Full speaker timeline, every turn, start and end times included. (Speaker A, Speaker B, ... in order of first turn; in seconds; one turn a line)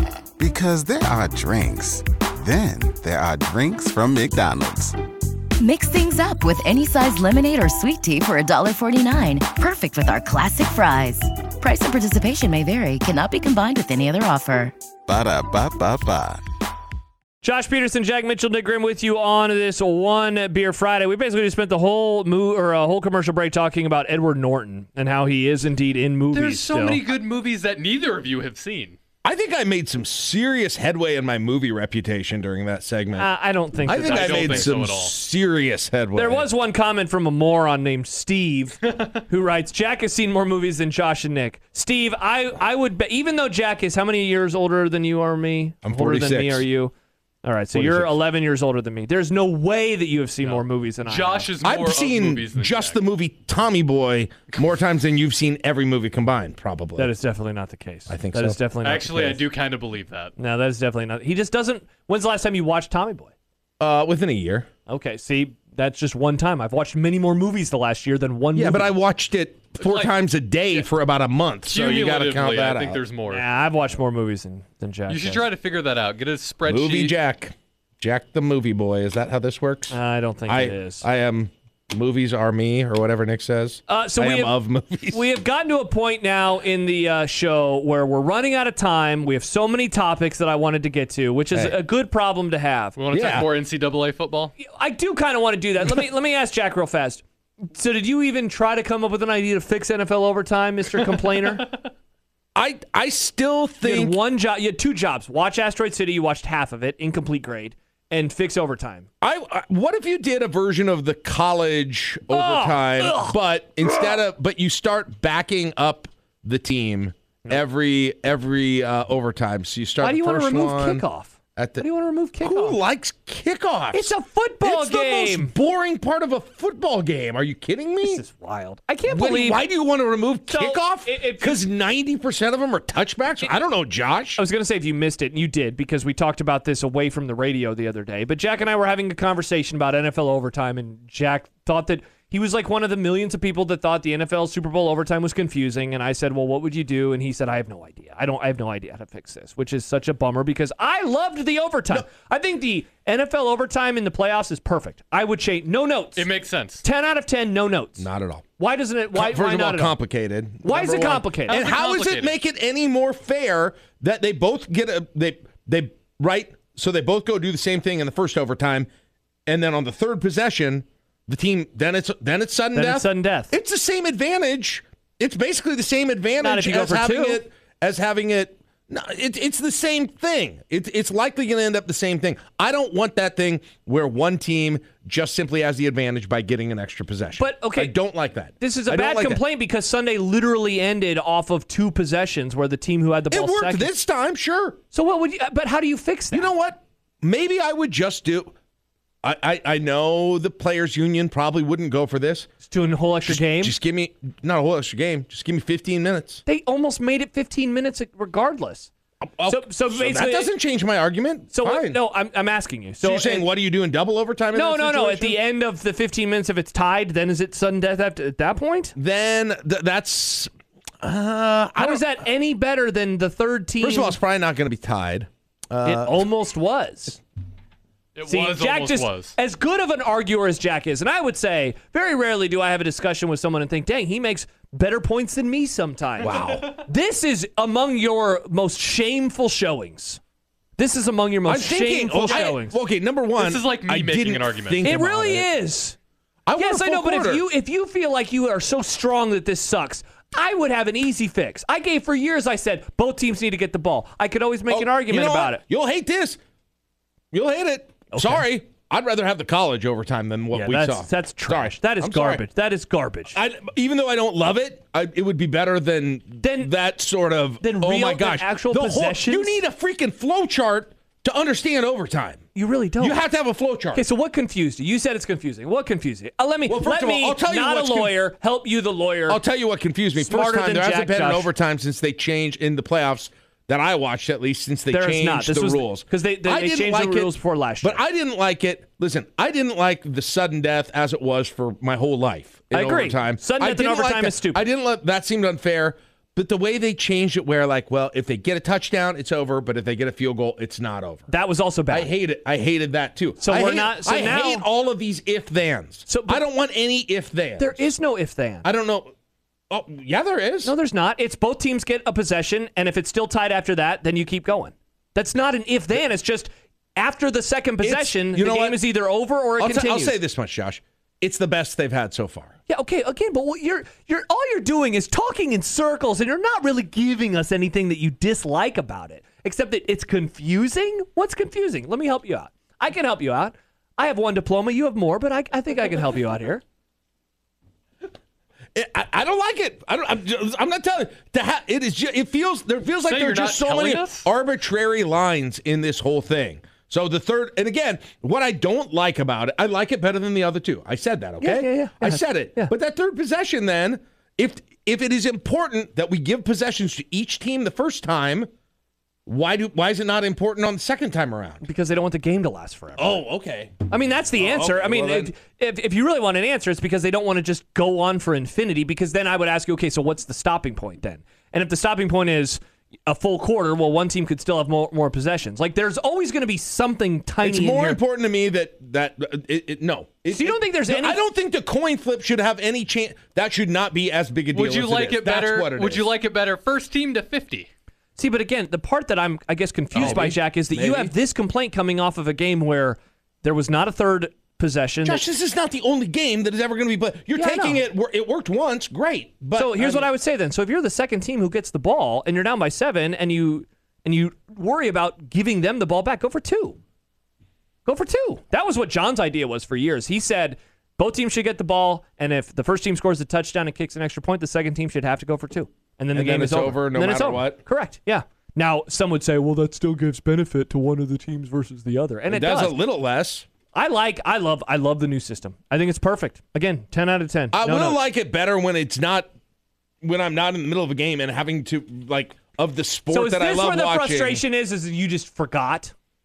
Speaker A: 0.4-5.0
Speaker B: 5.6-14.7
Speaker A: 15.1-16.4
Speaker C: 17.4-27.1
Speaker D: 26.3-29.0
Speaker E: 29.2-33.3
Speaker C: 33.2-34.8
Speaker E: 33.8-36.5
Speaker D: 33.9-35.1
Speaker C: 36.1-46.9
Speaker E: 45.8-46.7
Speaker C: 47.4-51.5
Speaker E: 47.7-48.2
Speaker D: 50.4-53.0
Speaker E: 51.6-57.1
Speaker C: 57.0-59.5
Speaker E: 58.1-58.6
Speaker D: 58.8-60.3
Speaker C: 60.4-63.3
Speaker E: 63.8-64.7
Speaker C: 64.9-69.0
Speaker E: 68.6-73.0
Speaker D: 69.8-70.1
Speaker D: 71.7-73.5
Speaker C: 73.3-75.5
Speaker D: 75.1-77.2
Speaker E: 76.7-80.0
Speaker C: 79.9-81.0
Speaker E: 80.5-85.2
Speaker C: 83.9-93.0
Speaker E: 91.5-91.8
Speaker D: 93.0-94.5
Speaker E: 93.1-93.5
Speaker C: 94.6-101.7
Speaker E: 102.6-104.2
Speaker C: 103.8-109.1
Speaker E: 109.2-121.9
Speaker C: 112.3-114.2
Speaker C: 120.0-122.8
Speaker E: 122.4-128.2
Speaker C: 123.9-125.5
Speaker C: 128.0-129.7
Speaker E: 129.1-134.4
Speaker C: 130.5-131.6
Speaker C: 134.4-156.3
Speaker D: 156.2-156.8
Speaker C: 156.8-160.0
Speaker E: 158.0-158.4
Speaker E: 159.1-168.9
Speaker C: 160.6-161.7
Speaker D: 161.4-162.4
Speaker E: 169.5-189.4
Speaker C: 172.7-173.5
Speaker C: 176.4-177.4
Speaker C: 187.4-188.0
Speaker C: 188.5-193.9
Speaker E: 193.3-194.8
Speaker C: 194.9-196.5
Speaker E: 196.3-198.5
Speaker E: 199.2-202.5
Speaker C: 202.7-203.8
Speaker E: 203.3-206.4
Speaker C: 206.5-208.9
Speaker E: 209.4-212.0
Speaker C: 209.5-210.5
Speaker C: 211.5-213.5
Speaker E: 213.0-215.4
Speaker C: 214.5-218.9
Speaker E: 219.0-220.5
Speaker E: 221.0-222.1
Speaker C: 221.8-224.2
Speaker E: 223.8-226.2
Speaker C: 225.8-227.2
Speaker D: 228.2-229.3
Speaker C: 228.3-240.2
Speaker E: 236.2-236.7
Speaker D: 236.3-236.8
Speaker C: 240.8-242.8
Speaker E: 241.5-245.5
Speaker D: 242.3-242.6
Speaker D: 243.4-244.8
Speaker C: 244.8-246.0
Speaker E: 246.5-247.4
Speaker C: 246.6-255.6
Speaker E: 254.7-256.4
Speaker E: 257.3-262.4
Speaker C: 258.1-258.5
Speaker C: 260.5-263.4
Speaker E: 263.3-272.4
Speaker C: 266.4-266.7
Speaker C: 267.6-269.6
Speaker C: 272.6-273.2
Speaker E: 273.0-274.1
Speaker C: 273.9-279.4
Speaker E: 276.7-278.2
Speaker E: 279.3-301.3
Speaker C: 280.2-281.5
Speaker C: 284.9-288.0
Speaker C: 292.7-294.6
Speaker C: 301.3-302.1
Speaker E: 301.9-307.9
Speaker C: 303.4-304.7
Speaker C: 306.1-306.4
Speaker C: 307.6-308.6
Speaker E: 308.6-309.1
Speaker E: 309.7-310.7
Speaker C: 310.6-320.2
Speaker E: 317.8-318.8
Speaker E: 319.6-322.6
Speaker C: 322.7-336.6
Speaker E: 338.8-358.5
Speaker D: 343.0-344.3
Speaker C: 351.4-352.7
Speaker E: 359.3-361.6
Speaker C: 361.6-363.2
Speaker E: 363.0-363.8
Speaker C: 363.9-378.0
Speaker E: 364.4-365.4
Speaker E: 377.4-386.1
Speaker C: 380.3-381.2
Speaker D: 384.5-387.7
Speaker C: 388.2-395.2
Speaker D: 389.9-390.4
Speaker E: 390.0-391.1
Speaker E: 395.1-400.1
Speaker C: 397.3-397.9
Speaker C: 399.6-406.8
Speaker C: 407.9-422.8
Speaker E: 416.1-417.6
Speaker E: 422.3-423.5
Speaker C: 423.7-428.0
Speaker E: 427.5-429.3
Speaker E: 430.0-434.4
Speaker C: 433.1-435.9